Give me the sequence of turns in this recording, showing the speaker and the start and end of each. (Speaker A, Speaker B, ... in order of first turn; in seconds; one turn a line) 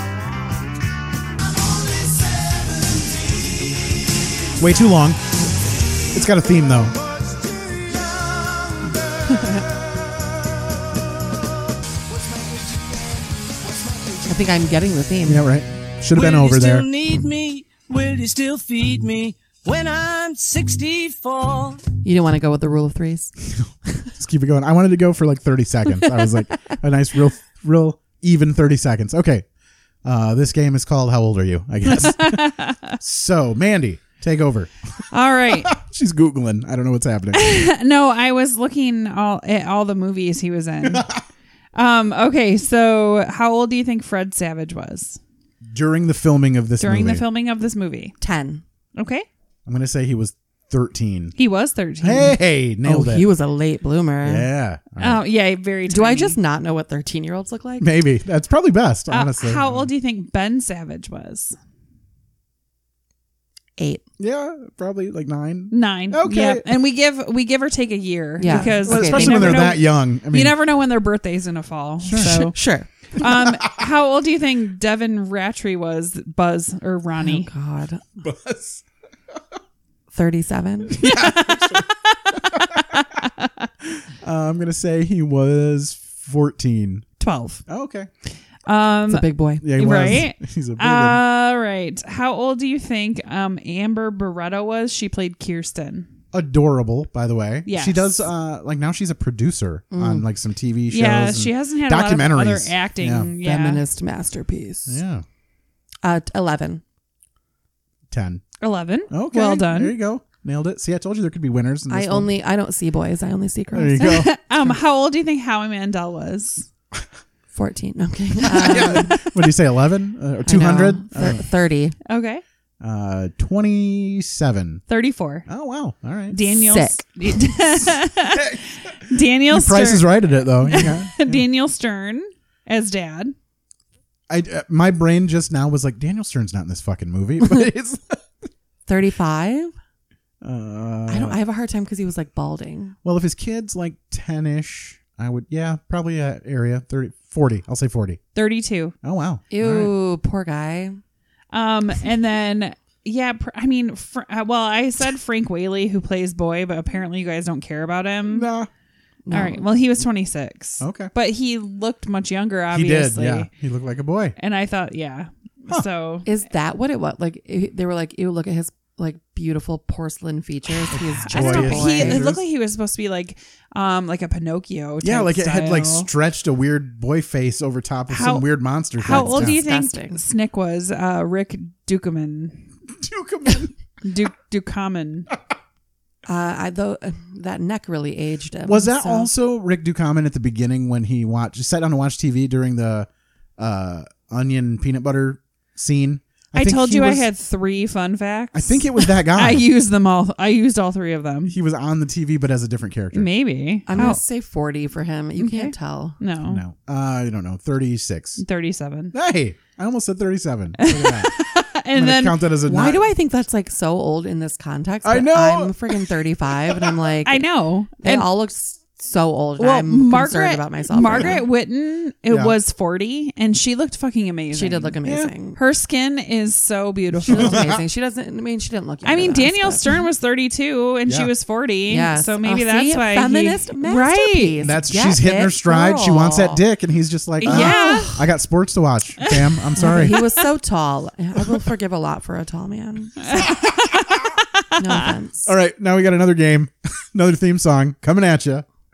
Speaker A: 4.6-5.2
Speaker A: 6.1-7.0
Speaker B: 7.2-9.7
Speaker B: 12.1-13.1
Speaker B: 13.7-14.2
Speaker C: 14.3-15.4
Speaker A: 15.3-16.9
Speaker B: 16.1-21.8
Speaker C: 22.0-23.3
Speaker A: 23.6-29.5
Speaker A: 30.1-35.0
Speaker D: 31.9-33.0
Speaker D: 35.1-35.7
Speaker A: 35.5-37.5
Speaker D: 37.3-41.1
Speaker A: 40.8-41.2
Speaker D: 41.8-45.2
Speaker A: 45.7-47.2
Speaker D: 46.8-48.1
Speaker C: 48.2-48.6
Speaker D: 49.0-49.3
Speaker A: 49.7-51.3
Speaker D: 51.4-52.4
Speaker A: 52.0-53.3
Speaker C: 52.8-54.5
Speaker A: 54.2-55.2
Speaker D: 55.0-56.4
Speaker C: 55.9-57.9
Speaker A: 57.8-59.9
Speaker D: 59.1-61.6
Speaker C: 63.8-64.0
Speaker A: 64.2-66.7
Speaker D: 65.7-72.6
Speaker C: 68.4-69.7
Speaker A: 68.5-70.6
Speaker A: 72.0-72.3
Speaker C: 72.2-72.9
Speaker D: 73.1-77.5
Speaker C: 77.2-78.0
Speaker A: 78.2-78.8
Speaker C: 80.1-81.0
Speaker A: 80.9-81.9
Speaker D: 81.0-83.5
Speaker A: 82.5-82.8
Speaker A: 83.8-87.1
Speaker D: 87.2-87.6
Speaker A: 87.7-88.1
Speaker D: 88.7-96.1
Speaker C: 89.1-90.1
Speaker A: 89.6-91.2
Speaker A: 96.3-103.3
Speaker D: 97.7-98.2
Speaker C: 99.9-100.3
Speaker D: 100.9-103.8
Speaker C: 103.4-105.0
Speaker A: 104.9-105.2
Speaker C: 106.0-106.8
Speaker A: 108.1-108.4
Speaker D: 108.6-110.0
Speaker A: 109.1-112.3
Speaker C: 111.9-114.0
Speaker A: 113.7-114.3
Speaker D: 114.0-116.7
Speaker C: 117.5-119.3
Speaker A: 118.4-121.4
Speaker C: 120.5-122.0
Speaker D: 122.1-122.4
Speaker A: 122.8-124.8
Speaker D: 124.9-125.5
Speaker A: 125.5-126.5
Speaker D: 126.3-133.3
Speaker C: 126.7-127.0
Speaker A: 128.3-128.6
Speaker A: 129.5-131.4
Speaker A: 134.3-138.2
Speaker C: 138.9-139.7
Speaker A: 140.4-141.4
Speaker C: 141.1-143.0
Speaker A: 143.0-148.2
Speaker D: 148.4-148.9
Speaker A: 149.0-149.9
Speaker C: 149.5-151.0
Speaker D: 151.5-158.5
Speaker A: 158.3-158.7
Speaker C: 159.3-159.6
Speaker D: 159.3-163.5
Speaker A: 160.8-161.1
Speaker A: 162.7-164.3
Speaker D: 164.4-166.3
Speaker C: 166.2-172.2
Speaker A: 170.9-172.4
Speaker D: 171.2-176.1
Speaker A: 175.0-179.6
Speaker D: 178.1-182.7
Speaker C: 179.1-180.2
Speaker A: 183.0-183.7
Speaker D: 184.0-185.3
Speaker C: 186.3-189.3
Speaker A: 188.7-197.3
Speaker D: 196.6-201.6
Speaker A: 198.5-199.7
Speaker A: 201.5-203.3
Speaker D: 203.1-204.2
Speaker C: 203.9-206.2
Speaker D: 205.4-206.6
Speaker A: 206.4-208.4
Speaker D: 208.4-209.1
Speaker A: 209.1-211.3
Speaker D: 210.8-212.4
Speaker A: 211.9-213.1
Speaker C: 212.7-217.4
Speaker A: 215.1-215.9
Speaker D: 217.2-218.3
Speaker C: 218.0-221.4
Speaker D: 219.6-225.0
Speaker A: 221.0-221.4
Speaker A: 222.3-222.6
Speaker C: 224.5-225.6
Speaker A: 225.0-225.3
Speaker D: 225.6-227.7
Speaker A: 227.1-227.8
Speaker C: 227.3-229.9
Speaker D: 229.1-234.6
Speaker C: 231.9-236.6
Speaker A: 234.6-240.2
Speaker D: 237.4-238.2
Speaker C: 237.4-238.1
Speaker D: 239.2-239.5
Speaker C: 239.8-243.3
Speaker D: 243.2-245.1
Speaker C: 244.8-245.5
Speaker A: 245.5-248.7